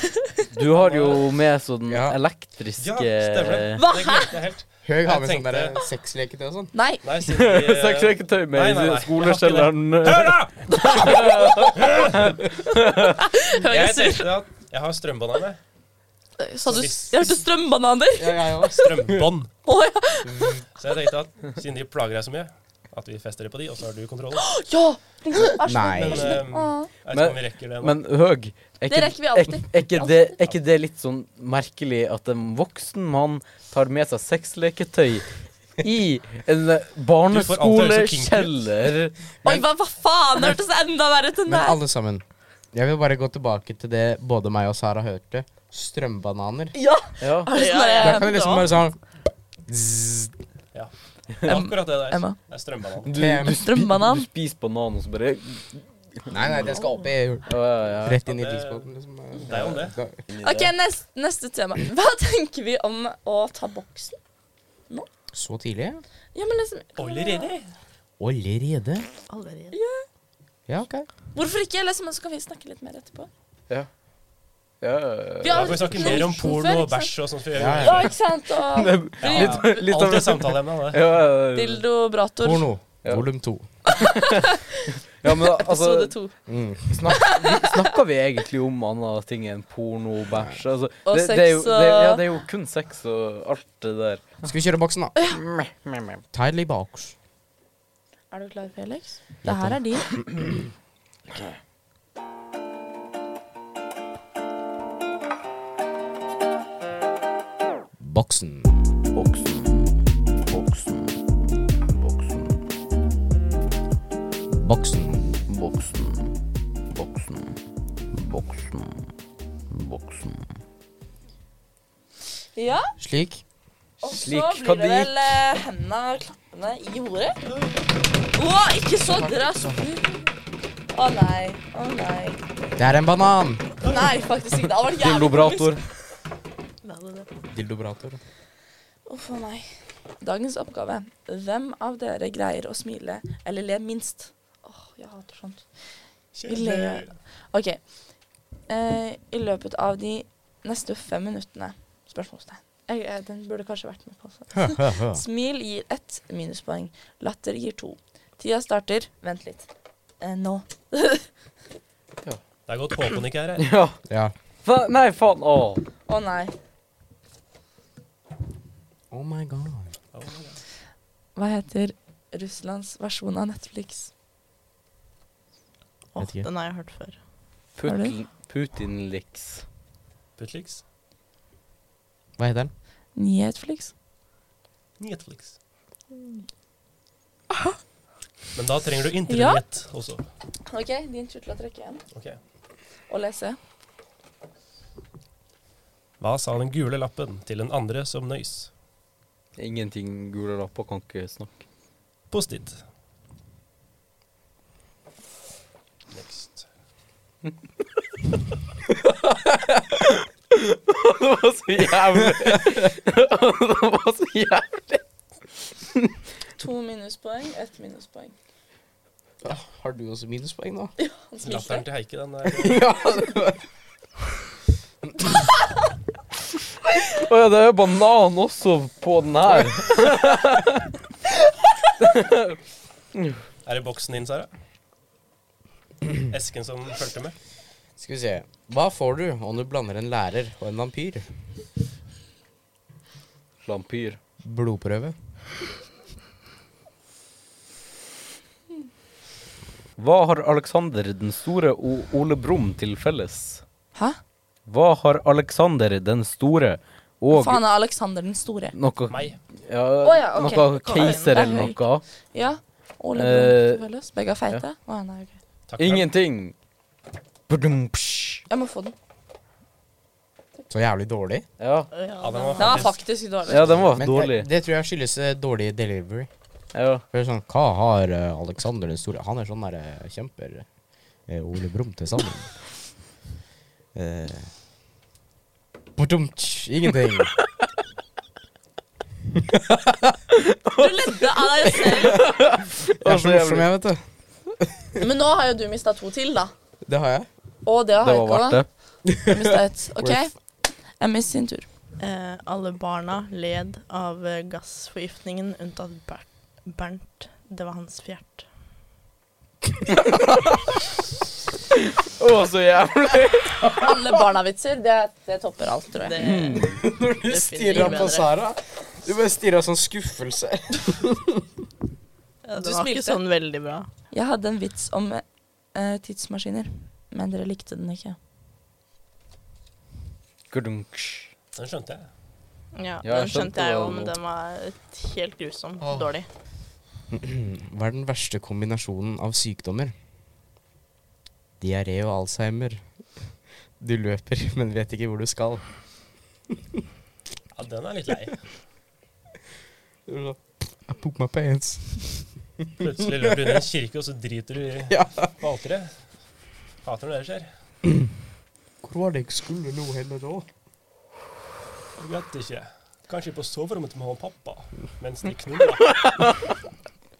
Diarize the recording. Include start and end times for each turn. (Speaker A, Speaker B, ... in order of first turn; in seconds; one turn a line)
Speaker A: 0.5-3.8
Speaker B: 0.7-1.3
Speaker C: 1.9-2.2
Speaker B: 2.8-5.8
Speaker D: 3.8-4.3
Speaker C: 4.8-6.7
Speaker D: 6.7-7.0
Speaker B: 7.0-12.4
Speaker A: 7.2-13.2
Speaker D: 13.2-14.3
Speaker B: 13.6-15.6
Speaker D: 16.4-18.8
Speaker B: 16.7-17.4
Speaker C: 18.1-19.3
Speaker B: 18.7-19.5
Speaker D: 19.6-20.6
Speaker C: 20.3-20.5
Speaker B: 20.8-24.6
Speaker D: 24.4-26.9
Speaker C: 25.6-26.4
Speaker B: 25.9-28.0
Speaker A: 27.1-35.3
Speaker D: 28.9-30.4
Speaker A: 35.8-39.6
Speaker B: 37.3-38.7
Speaker D: 39.4-41.8
Speaker C: 41.5-46.8
Speaker D: 46.7-48.4
Speaker A: 47.2-47.5
Speaker E: 47.5-48.7
Speaker C: 48.0-49.0
Speaker C: 49.6-50.3
Speaker B: 50.7-53.1
Speaker D: 51.5-52.4
Speaker A: 53.0-56.8
Speaker C: 53.1-53.6
Speaker D: 53.4-54.3
Speaker C: 56.3-60.2
Speaker A: 57.4-58.2
Speaker B: 58.2-60.0
Speaker A: 60.3-60.7
Speaker D: 60.4-64.2
Speaker C: 65.3-66.0
Speaker D: 66.3-67.5
Speaker B: 67.0-67.7
Speaker C: 68.2-69.1
Speaker E: 69.3-69.8
Speaker D: 69.7-70.0
Speaker C: 70.7-71.1
Speaker D: 71.3-73.3
Speaker A: 74.8-76.2
Speaker D: 75.4-77.1
Speaker B: 75.5-78.1
Speaker C: 77.5-78.1
Speaker D: 77.8-79.7
Speaker A: 78.7-81.8
Speaker B: 79.2-81.2
Speaker D: 81.5-82.7
Speaker C: 82.4-83.7
Speaker A: 83.9-84.5
Speaker D: 84.0-86.3
Speaker A: 85.2-86.1
Speaker C: 86.5-87.2
Speaker A: 86.9-94.4
Speaker D: 87.1-87.8
Speaker D: 91.0-92.2
Speaker C: 94.4-95.1
Speaker A: 95.3-96.2
Speaker C: 96.3-97.1
Speaker D: 98.3-100.1
Speaker C: 99.4-100.4
Speaker C: 108.0-108.9
Speaker A: 109.1-111.2
Speaker A: 111.9-112.6
Speaker C: 114.5-115.4
Speaker A: 115.5-116.3
Speaker A: 116.9-117.5
Speaker A: 118.1-119.1
Speaker A: 119.7-120.5
Speaker D: 122.5-122.9
Speaker C: 123.0-123.4
Speaker D: 124.0-127.4
Speaker A: 124.0-125.1
Speaker D: 128.3-130.2
Speaker C: 129.1-129.9
Speaker D: 130.9-132.4
Speaker C: 132.8-133.8
Speaker D: 133.8-135.8
Speaker A: 134.9-135.8
Speaker E: 136.8-137.3
Speaker C: 137.5-138.2
Speaker D: 139.1-145.8
Speaker B: 146.3-147.2
Speaker D: 146.4-148.1
Speaker D: 148.7-159.7
Speaker C: 154.5-155.2
Speaker D: 160.2-161.3
Speaker B: 162.7-163.7
Speaker A: 163.6-164.0
Speaker C: 164.1-164.3
Speaker A: 164.6-165.8
Speaker D: 166.1-166.5
Speaker C: 169.1-169.9
Speaker B: 170.1-170.6
Speaker D: 171.3-174.1
Speaker E: 176.1-177.2
Speaker C: 176.2-176.5
Speaker A: 177.7-179.6
Speaker D: 177.8-178.2
Speaker B: 180.4-180.8
Speaker C: 182.4-182.7
Speaker D: 183.1-183.9
Speaker B: 185.0-185.5
Speaker B: 188.5-190.2
Speaker D: 189.3-189.6
Speaker D: 190.7-192.0
Speaker B: 192.1-192.4
Speaker D: 193.1-193.6
Speaker B: 196.2-198.7
Speaker A: 199.6-201.6
Speaker B: 202.3-202.8
Speaker B: 206.1-206.7
Speaker A: 209.0-215.0
Speaker D: 216.6-218.3
Speaker C: 219.4-220.9
Speaker D: 221.0-221.8
Speaker B: 221.4-222.9
Speaker C: 222.4-223.6
Speaker A: 227.1-230.9
Speaker A: 232.0-232.6
Speaker B: 233.6-234.5
Speaker B: 236.3-237.3
Speaker C: 238.0-241.3
Speaker A: 243.6-244.2
Speaker C: 244.4-245.2
Speaker A: 250.0-253.6
Speaker D: 253.9-254.2
Speaker A: 254.6-257.6
Speaker D: 257.3-258.7
Speaker A: 258.7-262.0
Speaker B: 259.1-259.4
Speaker D: 260.0-265.3
Speaker E: 260.4-261.7
Speaker A: 263.1-263.8
Speaker B: 265.7-266.1
Speaker A: 265.8-266.5
Speaker A: 267.5-268.4
Speaker D: 268.5-268.9
Speaker C: 270.7-271.4
Speaker A: 271.6-271.9
Speaker E: 271.9-272.9
Speaker B: 272.2-273.9
Speaker D: 272.6-273.8
Speaker A: 273.5-274.5
Speaker C: 273.9-276.3
Speaker A: 276.7-277.0
Speaker C: 277.1-280.6
Speaker C: 281.3-282.5
Speaker C: 283.9-284.5
Speaker C: 285.9-287.3
Speaker A: 290.5-293.7
Speaker D: 290.8-292.2
Speaker C: 293.0-295.0
Speaker D: 295.0-296.5
Speaker C: 296.8-297.3
Speaker D: 297.6-301.7
Speaker A: 298.0-298.7
Speaker C: 299.1-299.4
Speaker C: 300.0-300.2
Speaker E: 302.0-308.5
Speaker A: 309.9-310.6
Speaker A: 312.0-313.9
Speaker D: 313.7-316.2
Speaker E: 316.0-318.3
Speaker A: 316.2-316.7
Speaker C: 316.6-321.4
Speaker E: 322.4-323.9
Speaker D: 322.6-323.2
Speaker D: 324.1-328.2
Speaker A: 330.5-331.3
Speaker B: 331.5-332.1
Speaker E: 332.7-336.3
Speaker A: 333.0-334.1
Speaker C: 337.1-339.9
Speaker C: 341.6-342.8
Speaker C: 343.8-345.6
Speaker B: 347.5-348.5
Speaker C: 350.1-352.7
Speaker B: 352.8-356.1
Speaker C: 353.2-353.6
Speaker C: 354.9-355.3
Speaker B: 356.8-357.5
Speaker C: 358.8-360.5
Speaker B: 361.9-366.0